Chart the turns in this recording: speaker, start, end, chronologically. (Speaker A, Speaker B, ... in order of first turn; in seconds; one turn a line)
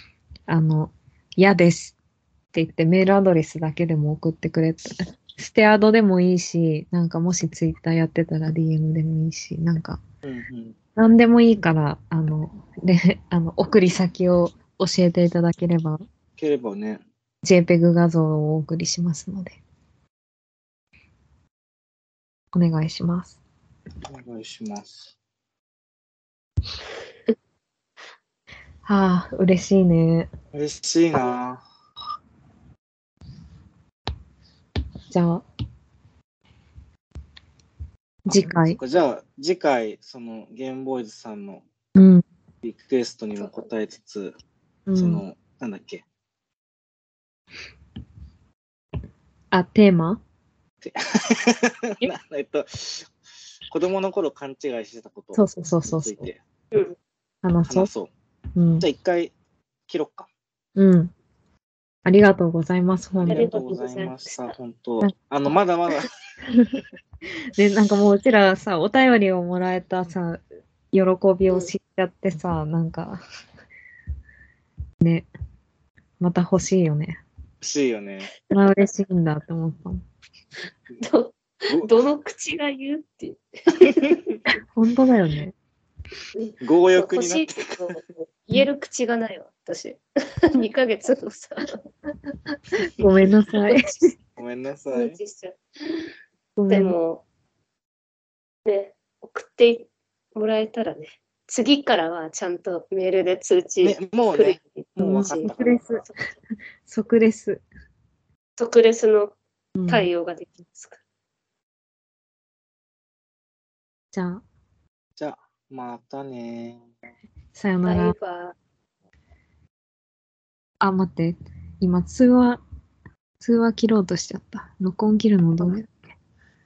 Speaker A: 0.5-2.0
Speaker A: 2.5-10.0
Speaker B: 10.2-10.8
Speaker A: 10.9-16.0
Speaker B: 16.4-17.0
Speaker A: 17.4-19.6
Speaker A: 22.5-23.4
Speaker B: 24.1-25.1
Speaker A: 28.8-30.3
Speaker B: 30.5-31.6
Speaker A: 35.1-35.4
Speaker A: 38.2-38.8
Speaker B: 38.3-41.6
Speaker A: 41.9-42.2
Speaker B: 42.6-44.4
Speaker C: 43.4-43.6
Speaker A: 44.9-45.2
Speaker B: 45.0-46.0
Speaker A: 49.5-50.2
Speaker B: 50.8-53.1
Speaker B: 53.7-56.4
Speaker A: 55.3-56.3
Speaker A: 57.4-57.9
Speaker B: 57.7-58.1
Speaker A: 58.5-58.9
Speaker B: 58.8-59.3
Speaker B: 59.9-60.3
Speaker A: 60.8-61.1
Speaker A: 62.0-63.5
Speaker B: 63.2-66.1
Speaker C: 63.3-64.5
Speaker A: 66.5-66.8
Speaker A: 67.5-70.4
Speaker A: 70.9-73.2
Speaker A: 75.0-75.3
Speaker A: 76.2-77.2
Speaker B: 77.6-78.3
Speaker A: 78.5-80.0
Speaker C: 81.0-84.3
Speaker A: 84.7-85.5
Speaker C: 86.4-90.0
Speaker B: 86.6-87.9
Speaker C: 90.5-91.8
Speaker A: 92.8-94.1
Speaker B: 94.4-95.2
Speaker C: 94.9-95.6
Speaker A: 96.5-97.0
Speaker C: 96.7-97.2
Speaker C: 98.7-105.5
Speaker B: 103.8-105.8
Speaker A: 105.0-106.0
Speaker A: 106.8-107.6
Speaker C: 108.6-109.3
Speaker A: 109.8-110.1
Speaker C: 109.9-111.0
Speaker A: 114.1-114.4
Speaker B: 115.2-116.8
Speaker A: 117.5-118.1
Speaker C: 117.8-118.5
Speaker A: 120.8-122.6
Speaker A: 123.4-126.1